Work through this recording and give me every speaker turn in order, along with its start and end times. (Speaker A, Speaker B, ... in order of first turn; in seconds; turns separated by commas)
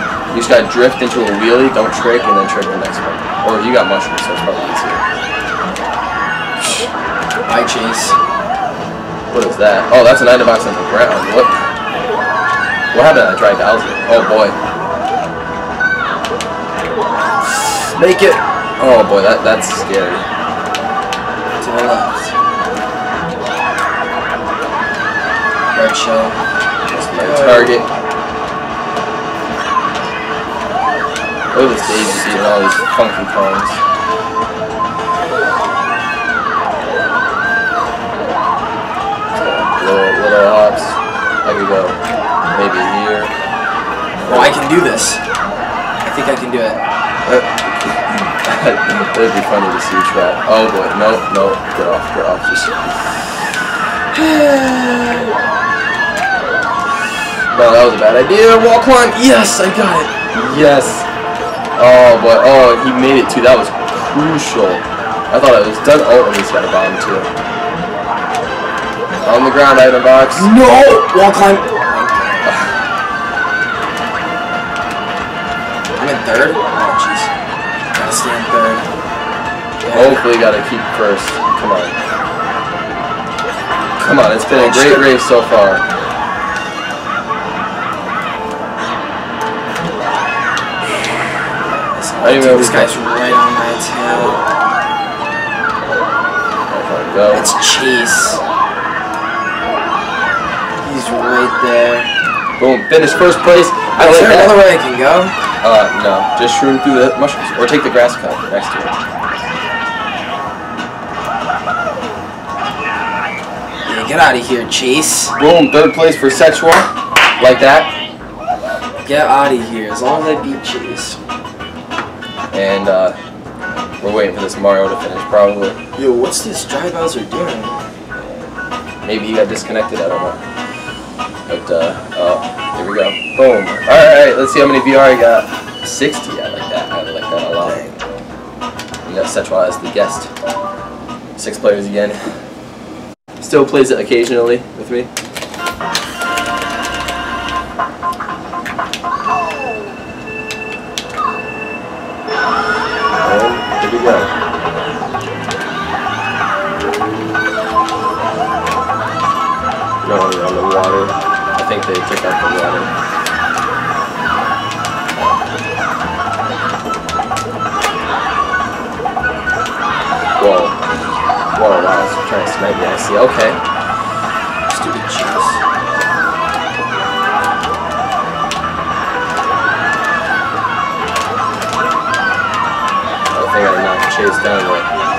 Speaker A: 0.3-5.0, Speaker A: 6.6-6.9, Speaker B: 7.5-8.2, Speaker A: 9.3-11.6, Speaker A: 12.9-14.6, Speaker A: 17.4-20.3, Speaker B: 21.6-22.3, Speaker B: 25.7-26.4, Speaker A: 26.9-27.9, Speaker B: 27.1-27.8, Speaker A: 31.5-33.8, Speaker A: 39.3-42.0, Speaker A: 42.5-43.3, Speaker A: 44.2-44.6, Speaker B: 44.3-45.2, Speaker B: 46.0-46.8, Speaker A: 47.3-53.3, Speaker A: 54.1-55.3, Speaker A: 57.5-61.1, Speaker A: 61.8-67.3, Speaker A: 69.2-70.5, Speaker B: 70.3-72.5, Speaker A: 72.4-72.8, Speaker B: 76.0-77.3, Speaker B: 77.9-78.9, Speaker B: 79.8-80.2, Speaker A: 79.9-82.0, Speaker A: 84.0-85.8, Speaker B: 84.5-85.1, Speaker B: 91.7-94.5, Speaker A: 92.2-93.0, Speaker A: 96.7-97.5, Speaker B: 97.3-98.4, Speaker B: 100.8-102.1, Speaker A: 102.6-104.7, Speaker B: 104.0-105.4, Speaker A: 105.6-108.9, Speaker B: 113.8-115.4, Speaker A: 115.4-117.9, Speaker B: 119.0-121.2, Speaker A: 122.5-123.2, Speaker A: 124.0-125.8, Speaker B: 126.0-127.8, Speaker A: 128.2-128.5, Speaker A: 129.1-130.4, Speaker A: 131.5-137.8, Speaker B: 137.6-138.0, Speaker A: 139.1-140.3, Speaker A: 141.4-142.2, Speaker A: 143.4-145.1, Speaker A: 153.2-154.3, Speaker A: 160.0-162.9, Speaker A: 165.2-165.4, Speaker A: 170.4-170.8, Speaker A: 171.6-173.6, Speaker B: 174.7-175.6, Speaker A: 183.3-184.9